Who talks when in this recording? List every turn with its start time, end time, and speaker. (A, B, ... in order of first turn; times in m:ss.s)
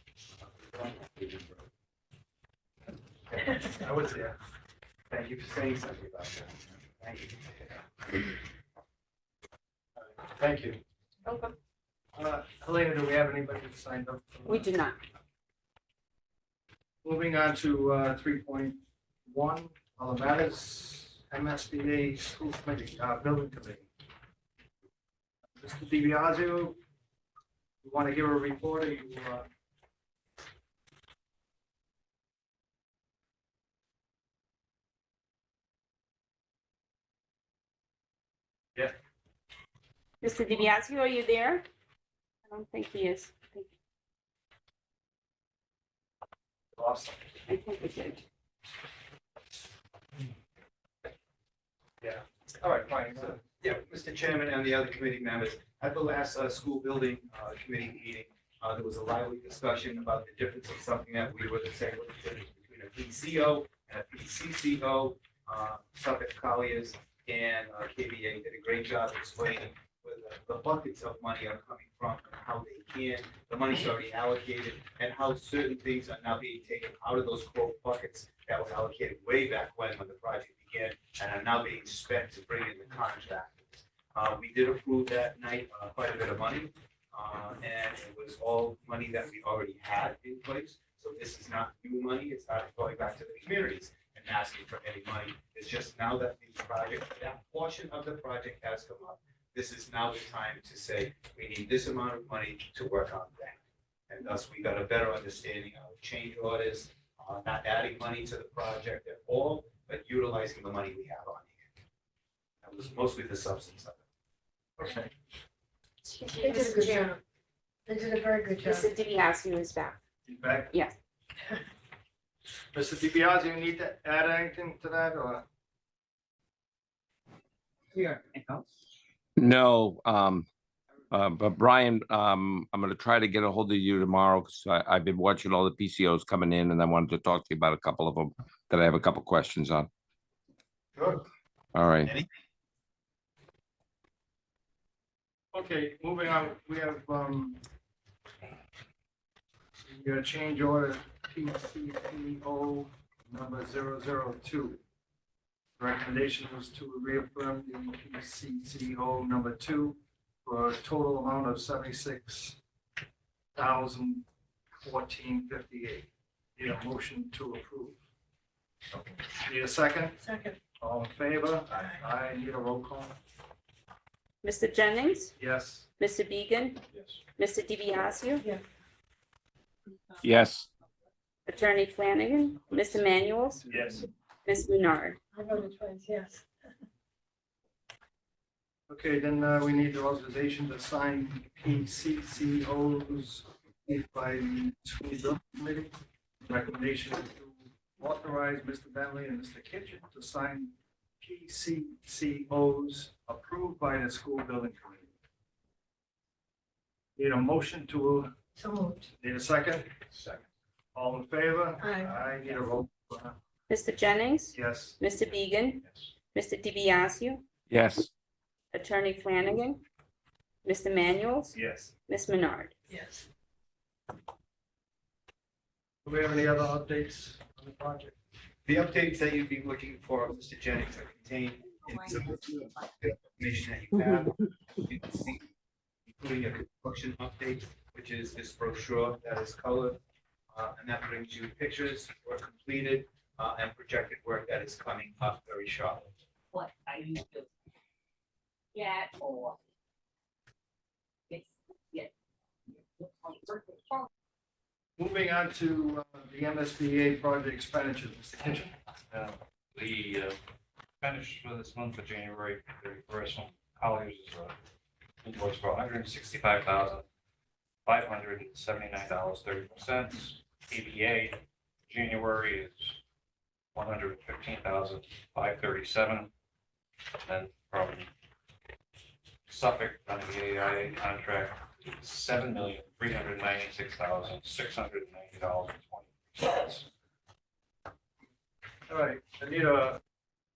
0:00.3-0:01.6 A
0:03.6-0:04.3 B
0:05.1-0:07.9 A
0:10.2-0:10.8 B
0:11.2-0:11.5 C
0:12.1-0:14.7 B
0:14.4-0:15.0 C
0:17.0-0:23.9 B
0:25.6-0:26.8 B
0:27.8-0:29.5 B
0:40.2-0:41.6 C
0:42.5-0:43.7 C
0:46.8-0:47.3 B
0:47.5-0:48.2 C
0:52.0-0:53.4 B
0:53.5-1:51.7 A
1:52.6-1:54.0 A
1:54.8-1:55.1 B
1:56.0-1:57.2 D
1:56.3-1:57.1 C
1:57.9-1:58.8 D
1:58.6-2:00.0 C
2:00.2-2:00.7 B
2:02.7-2:05.4 B
2:07.9-2:08.7 E
2:09.4-2:10.5 F
2:11.1-2:19.9 F
2:21.0-2:21.2 A
2:21.7-2:22.1 F
2:25.5-2:27.6 B
2:29.8-2:34.8 B
2:35.8-2:42.6 B
2:43.5-2:48.0 B
2:49.4-2:50.2 B
2:50.2-2:50.6 D
2:50.7-2:53.1 B
2:54.4-2:55.3 C
2:55.4-2:55.9 B
2:56.0-2:56.8 C
2:56.9-2:57.2 G
2:57.4-2:58.4 C
3:00.2-3:00.7 F
3:01.4-3:03.6 C
3:03.7-3:04.1 B
3:04.4-3:05.2 C
3:05.3-3:06.4 D
3:08.9-3:15.9 B
3:16.4-3:25.1 B
3:27.2-3:28.3 B
3:28.6-3:29.1 D
3:29.2-3:29.9 B
3:30.9-3:33.3 B
3:31.8-3:32.1 D
3:33.7-3:37.4 C
3:34.5-3:35.0 B
3:37.7-3:38.1 F
3:38.7-3:39.8 C
3:40.6-3:42.7 C
3:41.6-3:41.9 B
3:46.0-3:48.1 B
3:48.6-3:55.4 A
3:56.2-4:00.0 A
4:00.5-4:06.1 A
4:06.5-4:07.5 E
4:08.7-4:09.6 E
4:11.3-4:12.1 E
4:12.7-4:14.1 E
4:15.0-4:18.7 B
4:19.1-4:20.4 G
4:21.0-4:24.5 G
4:25.2-4:27.0 G
4:27.8-4:33.0 G
4:33.7-4:36.3 G
4:37.2-4:38.1 G
4:39.5-4:46.8 G
4:48.9-4:50.0 B